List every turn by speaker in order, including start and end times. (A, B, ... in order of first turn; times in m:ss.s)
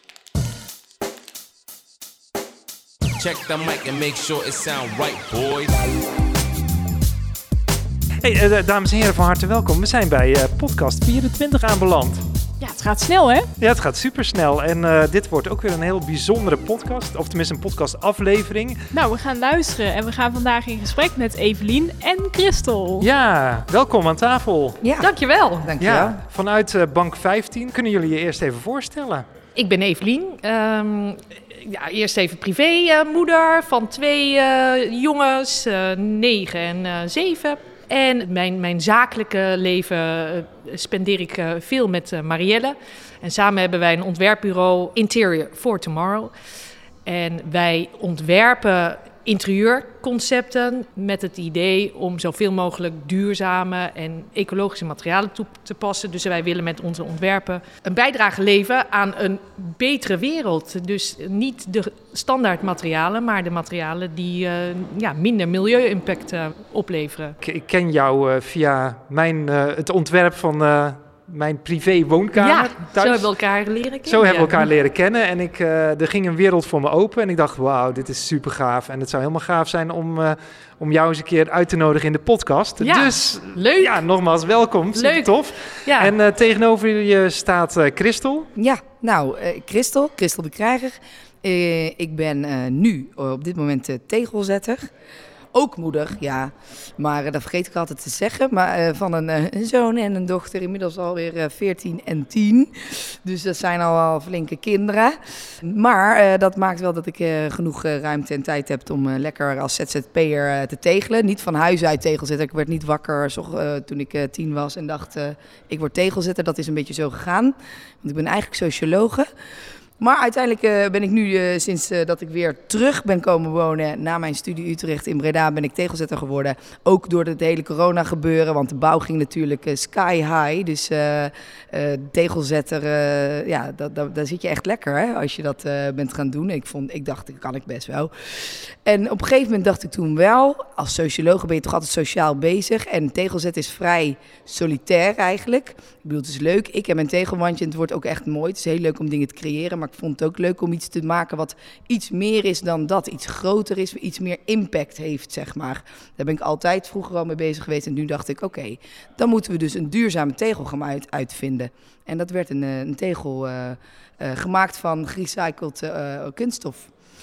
0:03.2-0:05.8 A
0:08.2-0:12.2 B
0:12.6-0:13.5 C
0:13.6-0:18.9 B
0:18.9-0:23.1 C
0:23.0-0:24.8 B
0:24.8-0:26.2 D
0:25.0-0:25.7 E
0:25.8-0:29.2 B
0:29.6-0:46.3 E
0:47.0-1:07.4 E
1:07.4-1:13.3 B
1:12.4-1:14.6 E
1:14.1-1:28.5 B
1:22.8-1:24.0 E
1:24.9-1:26.1 E
1:28.5-1:34.9 D
1:35.5-1:59.3 D
2:00.0-2:46.9 D